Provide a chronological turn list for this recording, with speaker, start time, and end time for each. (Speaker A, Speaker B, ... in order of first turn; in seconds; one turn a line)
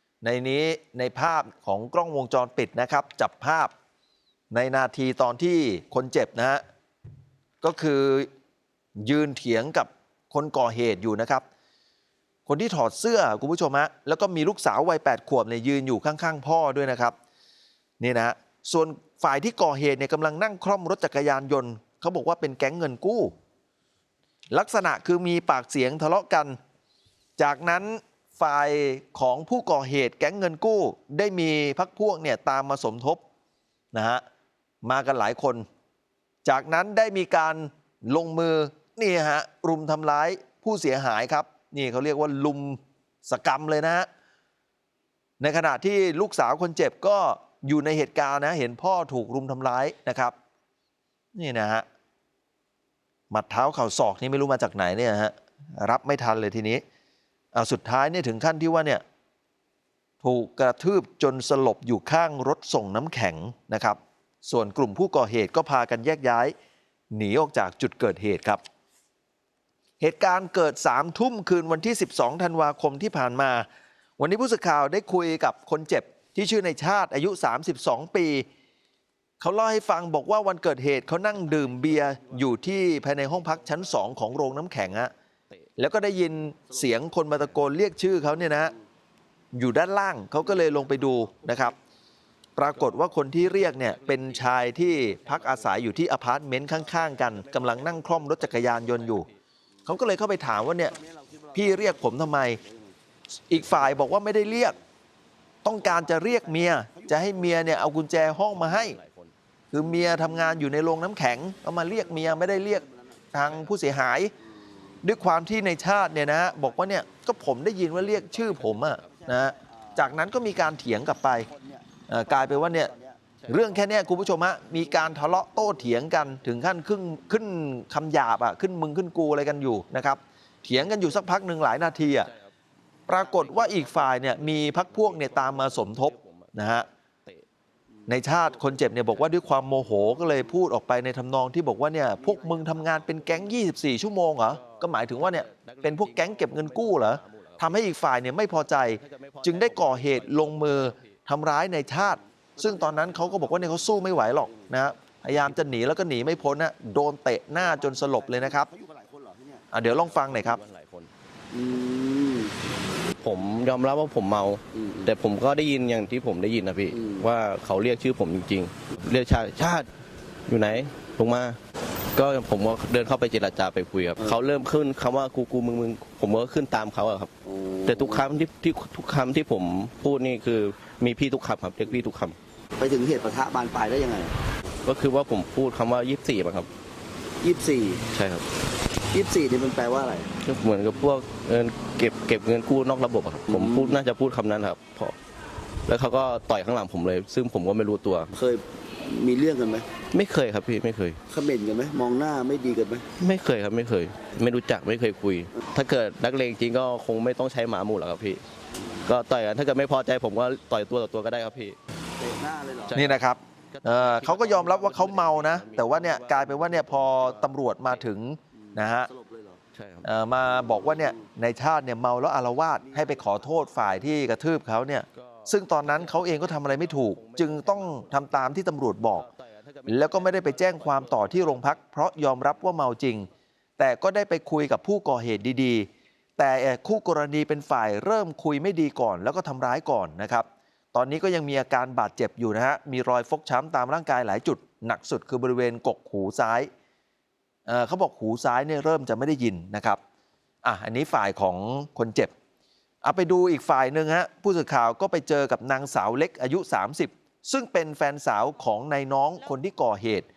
Speaker A: 0.2-3.7
Speaker A: 4.5-6.6
Speaker A: 7.6-8.3
Speaker A: 9.0-11.4
Speaker A: 12.5-17.2
Speaker A: 18.0-23.3
Speaker A: 24.5-26.6
Speaker A: 27.4-33.2
Speaker A: 33.9-34.2
Speaker A: 34.8-35.6
Speaker A: 36.5-44.1
Speaker A: 45.4-50.3
Speaker A: 51.4-51.9
Speaker A: 53.3-56.8
Speaker A: 57.5-59.0
Speaker A: 60.2-66.5
Speaker A: 67.1-68.6
Speaker A: 70.0-73.7
Speaker A: 74.2-78.5
Speaker A: 79.4-85.1
Speaker B: 81.4-82.4
Speaker A: 85.8-88.7
Speaker A: 89.5-91.8
Speaker A: 92.6-99.3
Speaker B: 92.7-95.8
Speaker B: 96.8-99.4
Speaker A: 99.9-101.0
Speaker C: 100.9-103.0
Speaker A: 101.5-102.6
Speaker A: 103.5-104.8
Speaker C: 103.7-104.8
Speaker A: 105.6-109.0
Speaker C: 105.8-108.0
Speaker B: 108.5-109.3
Speaker A: 109.7-114.3
Speaker C: 109.8-110.7
Speaker C: 111.9-113.3
Speaker A: 115.0-121.5
Speaker C: 116.2-117.3
Speaker B: 118.2-119.1
Speaker C: 118.2-120.1
Speaker C: 121.4-123.2
Speaker A: 122.1-122.9
Speaker B: 123.4-124.0
Speaker A: 123.5-132.3
Speaker C: 124.7-126.1
Speaker B: 132.2-132.5
Speaker A: 133.1-136.9
Speaker B: 133.1-136.5
Speaker C: 138.0-139.0
Speaker A: 138.1-158.7
Speaker C: 139.6-140.6
Speaker C: 142.1-143.5
Speaker B: 144.5-147.8
Speaker B: 148.5-151.2
Speaker C: 152.1-154.8
Speaker C: 157.6-159.7
Speaker A: 159.7-160.6
Speaker B: 160.0-161.1
Speaker C: 161.5-162.6
Speaker B: 163.2-169.9
Speaker C: 164.7-165.1
Speaker C: 166.9-167.3
Speaker B: 170.5-171.6
Speaker B: 172.1-177.3
Speaker C: 177.4-178.3
Speaker B: 177.9-182.4
Speaker C: 182.8-184.3
Speaker B: 184.8-186.7
Speaker C: 187.4-188.0
Speaker B: 188.1-188.5
Speaker C: 189.1-190.3
Speaker B: 190.4-195.2
Speaker C: 193.5-194.0
Speaker B: 195.9-198.3
Speaker C: 198.3-199.9
Speaker B: 200.1-201.2
Speaker C: 201.3-203.1
Speaker B: 203.2-208.4
Speaker B: 209.0-211.8
Speaker C: 212.2-213.0
Speaker B: 212.9-213.2
Speaker A: 212.9-219.1
Speaker B: 213.7-218.1
Speaker C: 218.6-219.6
Speaker B: 219.7-220.1
Speaker A: 220.0-229.3
Speaker C: 220.4-221.3
Speaker C: 222.8-224.2
Speaker B: 225.1-228.5
Speaker B: 229.1-231.8
Speaker A: 229.9-246.7
Speaker A: 247.7-250.0
Speaker A: 250.6-252.3
Speaker A: 253.0-260.3